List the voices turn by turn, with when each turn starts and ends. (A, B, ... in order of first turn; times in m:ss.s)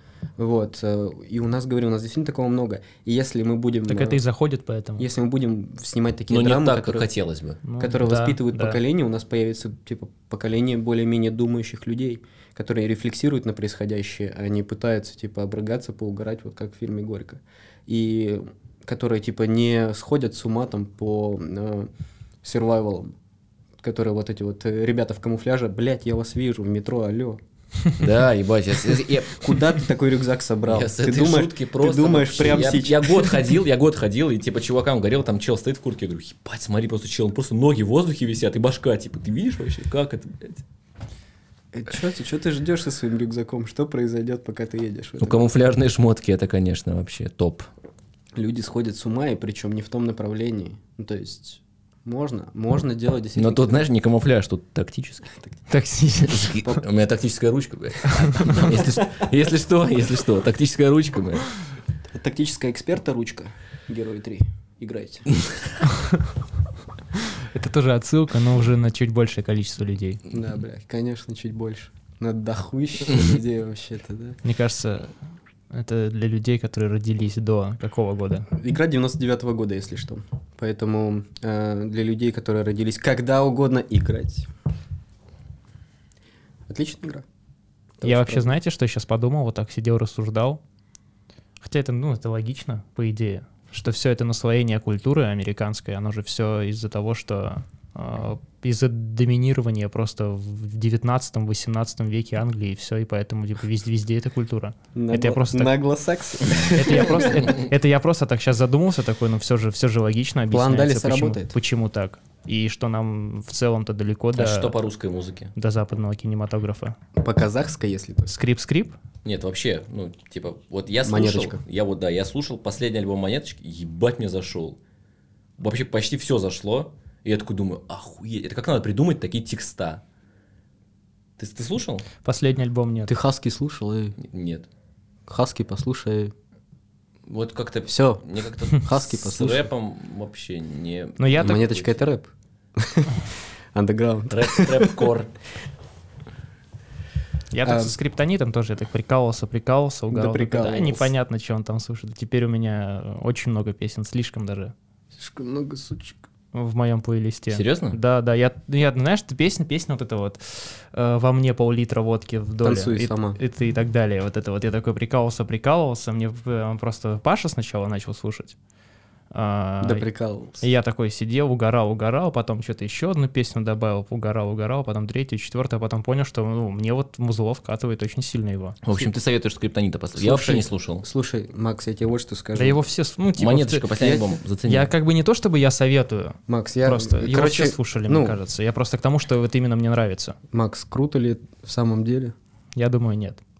0:00.4-0:04.2 A
0:03.9-0:05.0 B
0:05.0-0:07.1 A
0:06.3-0:07.6 C
0:07.6-0:08.8 B
0:07.8-0:21.9 A
0:22.4-0:23.1 A
0:23.8-0:27.4 A
0:28.0-0:29.8 C
0:28.9-0:33.4 A
0:30.6-0:40.6 C
0:41.7-0:45.5 A
0:45.2-0:47.7 C
0:48.4-0:53.8 A
0:53.4-0:55.4 C
0:55.7-0:56.8 B
0:56.2-1:01.5 C
0:58.3-0:58.6 B
1:02.1-1:05.3 A
1:07.2-1:10.2 B
1:10.3-1:14.4 A
1:14.4-1:15.2 B
1:15.7-1:18.5 B
1:18.5-1:24.5 A
1:26.7-1:27.2 A
1:28.0-1:28.5 A
1:28.0-1:30.6 B
1:31.6-1:45.7 B
1:44.9-1:47.5 A
1:46.5-1:46.8 C
1:46.6-1:54.7 B
1:50.5-1:51.5 A
1:54.3-1:55.5 C
1:55.6-1:56.9 B
1:57.2-1:58.3 A
1:58.3-1:59.0 B
1:59.2-2:04.8 C
2:01.0-2:01.6 A
2:05.6-2:10.0 C
2:11.4-2:12.0 C
2:12.2-2:13.2 B
2:13.1-2:14.2 A
2:14.2-2:14.7 C
2:15.3-2:16.3 A
2:17.3-2:22.0 C
2:17.9-2:19.7 A
2:21.2-2:21.6 B
2:21.4-2:25.1 A
2:24.3-2:25.3 C
2:27.5-2:34.7 B
2:27.6-2:27.9 A
2:30.1-2:31.1 A
2:35.1-2:36.2 A
2:36.5-2:48.6 B
2:37.5-2:38.0 C
2:42.6-2:43.4 A
2:49.3-2:50.0 B
2:49.8-2:50.6 A
2:50.6-2:58.8 B
2:58.8-3:01.0 C
3:00.2-3:02.8 A
3:02.6-3:03.9 B
3:03.4-3:04.9 C
3:04.0-3:04.3 A
3:04.6-3:10.4 B
3:06.5-3:08.4 A
3:10.5-3:12.3 A
3:12.8-3:13.4 B